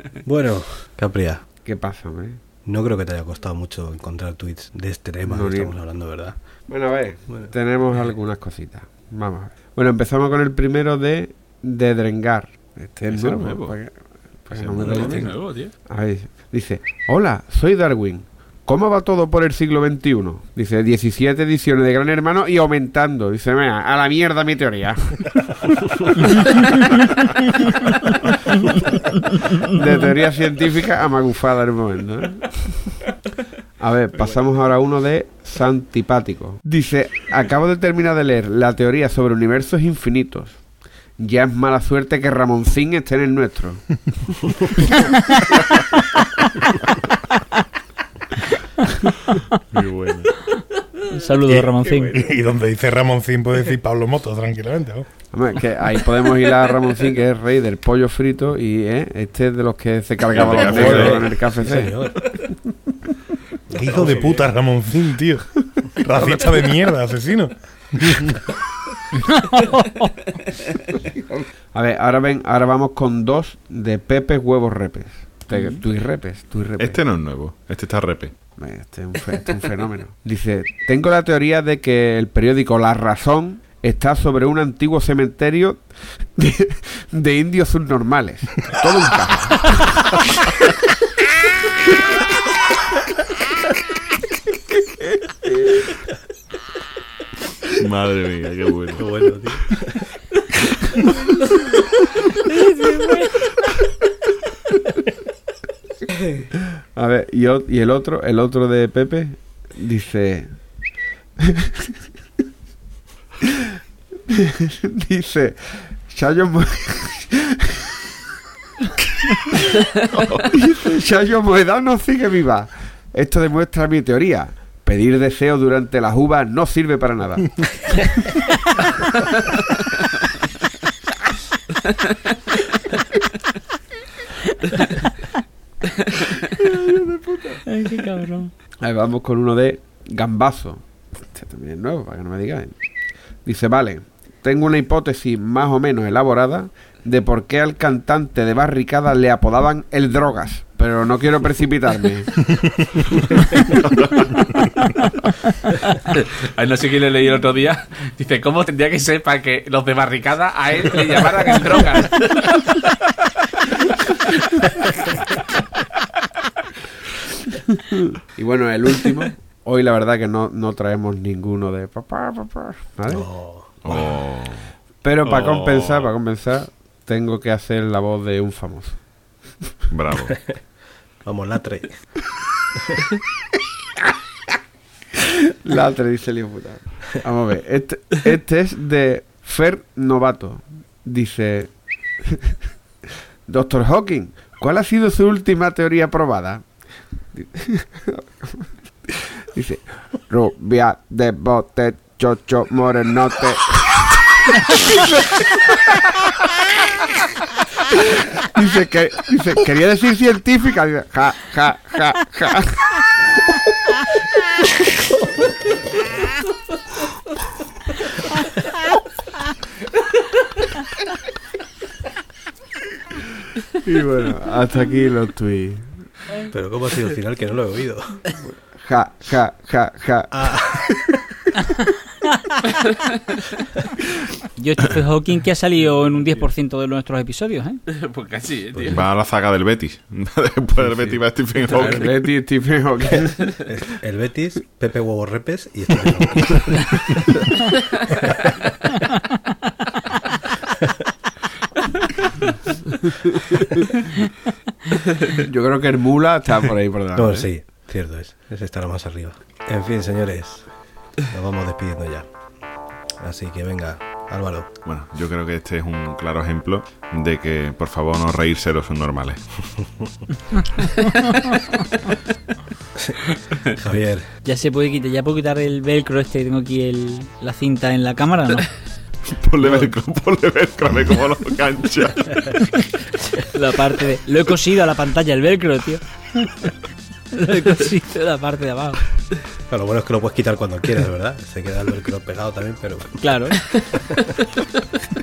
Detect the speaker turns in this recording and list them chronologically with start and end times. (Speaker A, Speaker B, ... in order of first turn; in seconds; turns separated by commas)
Speaker A: 0.2-1.4, Speaker B: 1.6-2.4, Speaker A: 2.6-6.3, Speaker B: 5.2-5.8, Speaker B: 6.7-25.5, Speaker C: 13.1-13.8, Speaker C: 14.5-15.3, Speaker D: 14.8-15.7, Speaker B: 26.4-26.8, Speaker B: 29.6-33.1, Speaker B: 33.8-43.8, Speaker C: 49.7-50.3, Speaker E: 51.1-52.2, Speaker F: 51.5-55.1, Speaker B: 55.3-62.1, Speaker C: 60.3-61.2, Speaker A: 60.6-62.3, Speaker F: 60.8-61.1, Speaker F: 63.7-68.5, Speaker A: 63.7-64.4, Speaker B: 66.2-66.5, Speaker E: 69.3-70.1, Speaker B: 71.7-77.0, Speaker C: 76.8-78.4, Speaker B: 78.5-90.1, Speaker C: 97.8-99.0, Speaker A: 99.0-100.1, Speaker E: 102.6-103.1, Speaker B: 106.9-111.0, Speaker B: 114.3-117.5, Speaker B: 120.5-128.1, Speaker B: 136.8-137.6, Speaker E: 137.7-138.5, Speaker B: 138.8-142.8, Speaker B: 143.3-152.4, Speaker F: 152.5-152.9, Speaker B: 153.2-153.6, Speaker C: 154.1-154.3, Speaker D: 156.1-163.0, Speaker B: 168.3-174.2, Speaker A: 173.1-173.7, Speaker C: 173.8-174.7, Speaker B: 175.0-179.5, Speaker D: 175.2-176.1, Speaker C: 179.9-180.4, Speaker A: 181.2-182.2, Speaker B: 185.5-192.4, Speaker B: 193.5-204.0, Speaker B: 204.8-205.4, Speaker B: 207.9-213.0, Speaker B: 223.8-226.1, Speaker A: 226.5-228.2, Speaker B: 228.4-230.4, Speaker A: 230.3-231.0, Speaker E: 234.6-237.8, Speaker D: 237.9-239.0, Speaker A: 238.7-239.0, Speaker C: 238.8-242.1, Speaker B: 241.7-243.7, Speaker D: 241.7-242.0, Speaker A: 243.7-247.2, Speaker B: 255.2-257.5, Speaker A: 257.1-262.3, Speaker A: 263.2-264.7, Speaker C: 264.8-269.4, Speaker A: 273.0-274.3, Speaker E: 274.4-278.7, Speaker C: 279.2-282.6, Speaker E: 283.4-286.7, Speaker E: 287.3-289.0, Speaker A: 289.7-293.2, Speaker E: 293.2-293.6, Speaker A: 293.9-294.4